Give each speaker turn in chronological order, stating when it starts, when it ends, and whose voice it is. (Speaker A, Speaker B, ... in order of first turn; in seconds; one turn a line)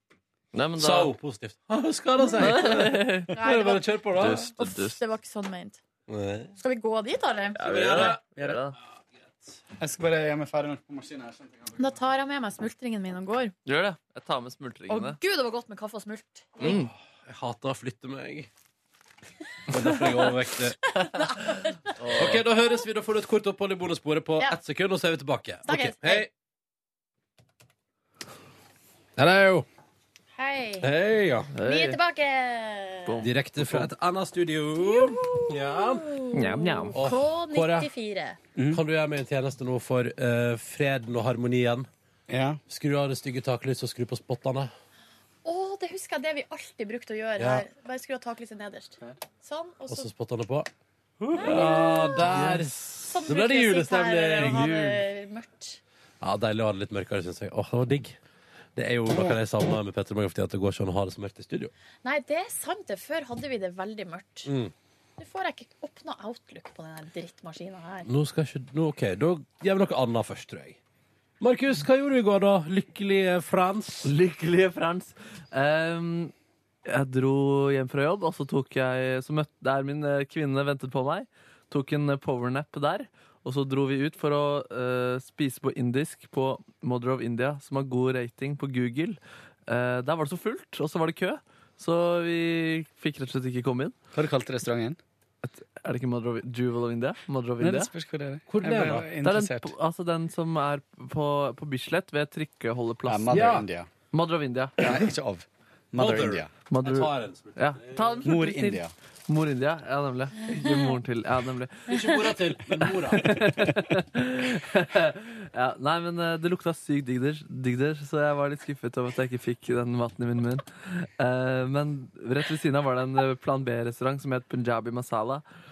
Speaker A: 0.5-1.1
Speaker B: 0.8-4.5
Speaker A: 2.4-3.4
Speaker C: 3.3-5.8
Speaker A: 4.2-5.0
Speaker B: 6.1-6.5
Speaker C: 6.6-7.6
Speaker A: 7.6-8.7
Speaker B: 7.6-8.2
Speaker D: 8.3-8.6
Speaker B: 9.2-9.6
Speaker D: 9.8-11.9
Speaker C: 11.8-13.5
Speaker A: 13.7-15.2
Speaker C: 14.9-16.7
Speaker A: 16.6-16.9
Speaker B: 16.6-18.5
Speaker B: 19.7-20.9
Speaker C: 20.9-22.0
Speaker A: 22.0-22.4
Speaker B: 22.1-26.3
Speaker C: 25.6-26.3
Speaker B: 29.2-29.7
Speaker C: 30.4-30.9
Speaker B: 30.8-31.5
Speaker A: 31.5-32.0
Speaker C: 31.6-33.2
Speaker A: 33.0-33.9
Speaker B: 33.2-36.1
Speaker C: 34.9-38.4
Speaker A: 36.3-36.9
Speaker B: 36.9-37.9
Speaker D: 38.5-38.8
Speaker B: 38.7-41.9
Speaker D: 42.3-42.6
Speaker B: 42.7-44.7
Speaker C: 45.4-50.1
Speaker B: 47.4-47.6
Speaker B: 49.9-50.7
Speaker B: 51.2-55.0
Speaker C: 51.3-52.4
Speaker A: 52.3-52.6
Speaker C: 53.1-55.8
Speaker B: 56.2-58.2
Speaker B: 58.8-61.7
Speaker C: 62.0-64.5
Speaker B: 64.5-64.7
Speaker C: 65.2-68.1
Speaker B: 68.0-70.8
Speaker B: 71.4-74.1
Speaker A: 74.0-76.3
Speaker A: 76.8-93.9
Speaker D: 94.1-95.0
Speaker A: 95.4-97.9
Speaker D: 97.6-99.7
Speaker B: 98.5-99.1
Speaker A: 99.2-103.6
Speaker D: 103.0-103.9
Speaker B: 103.3-103.7
Speaker A: 104.1-105.1
Speaker D: 104.8-106.5
Speaker B: 105.9-108.2
Speaker A: 106.7-112.0
Speaker D: 108.2-108.9
Speaker B: 111.9-113.4
Speaker A: 113.1-125.4